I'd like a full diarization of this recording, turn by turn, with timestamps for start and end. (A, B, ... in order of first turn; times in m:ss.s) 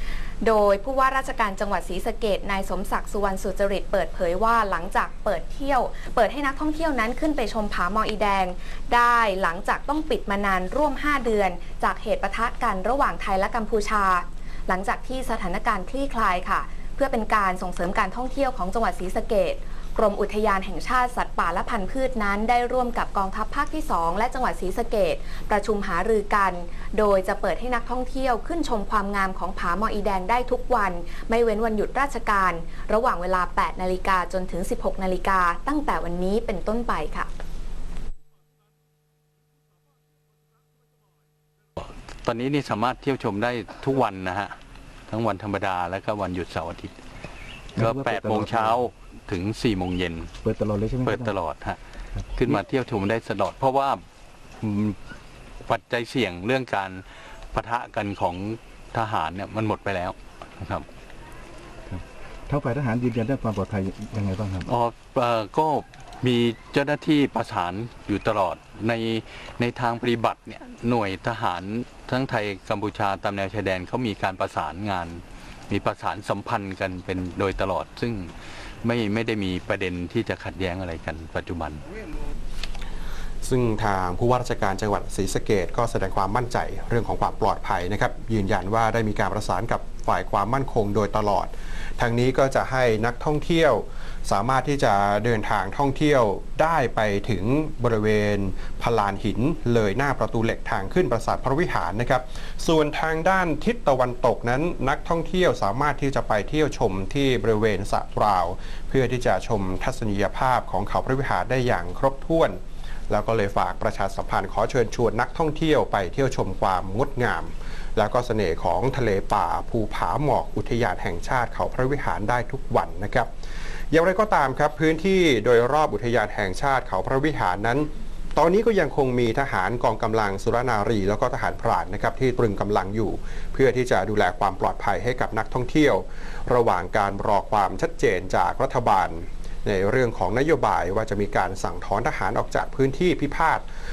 0:00.4-0:37.3 A
0:41.8-0:44.6 B
0:45.1-0:47.0 B
0:47.8-0:50.3 B
0:47.8-0:48.8 C
0:50.4-0:51.4 C
0:51.0-0:51.8 B
0:52.3-0:54.0 B
0:54.6-0:55.0 B
0:55.6-1:00.9 B
1:01.9-1:04.7 C
1:04.7-1:21.8 B
1:23.4-1:52.6 D
1:53.1-2:03.3 D
2:03.9-2:23.6 D